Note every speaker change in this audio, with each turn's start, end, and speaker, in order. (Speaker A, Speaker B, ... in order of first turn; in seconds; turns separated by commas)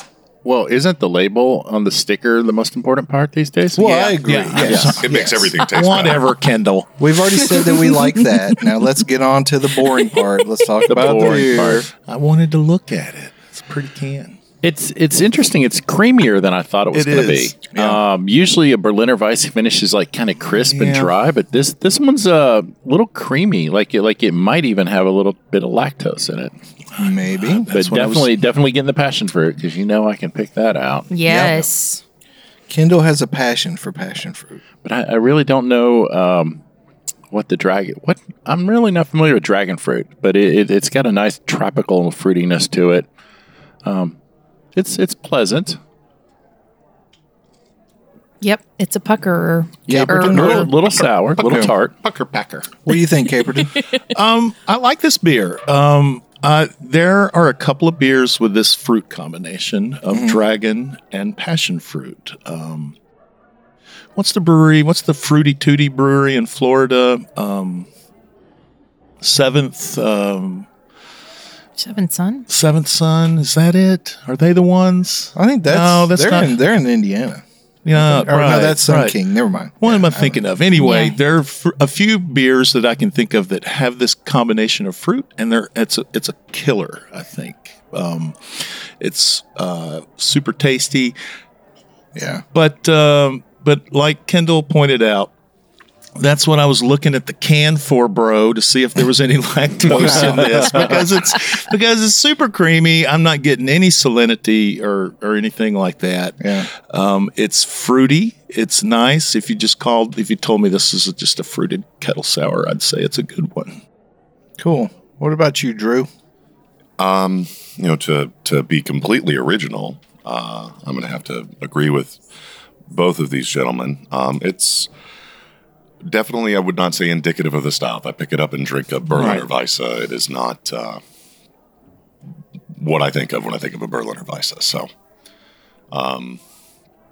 Speaker A: 0.4-3.9, Speaker B: 3.7-5.7, Speaker C: 3.8-6.9, Speaker A: 4.5-5.0, Speaker D: 5.0-6.3, Speaker B: 7.0-11.9, Speaker E: 7.6-8.0, Speaker A: 10.9-11.9, Speaker C: 11.0-14.4, Speaker A: 14.6-26.5, Speaker C: 16.9-17.6, Speaker B: 17.7-18.0, Speaker C: 20.5-21.1, Speaker C: 26.9-28.3, Speaker B: 27.0-27.7, Speaker A: 27.7-31.1, Speaker E: 31.1-32.0, Speaker B: 31.2-31.6, Speaker B: 32.7-34.6, Speaker A: 34.8-36.6, Speaker A: 37.3-43.0, Speaker A: 43.8-44.1, Speaker A: 44.7-45.8, Speaker E: 48.4-50.7, Speaker B: 49.9-50.7, Speaker A: 49.9-52.0, Speaker B: 51.4-51.7, Speaker C: 51.4-52.7, Speaker B: 52.9-53.8, Speaker C: 54.1-62.9, Speaker B: 60.1-60.4, Speaker C: 64.2-67.9, Speaker C: 69.2-70.7, Speaker E: 71.8-72.5, Speaker C: 72.5-76.5, Speaker B: 75.3-77.4, Speaker C: 77.8-79.2, Speaker B: 77.9-80.4, Speaker C: 79.8-91.2, Speaker E: 80.8-81.2, Speaker B: 92.1-92.4, Speaker C: 92.5-95.3, Speaker C: 96.2-113.8, Speaker B: 99.8-101.0, Speaker B: 106.4-106.7, Speaker B: 114.6-116.1, Speaker D: 117.0-122.2, Speaker D: 122.9-124.9, Speaker D: 126.1-131.0, Speaker C: 129.1-129.5, Speaker D: 132.8-134.9, Speaker D: 135.9-136.4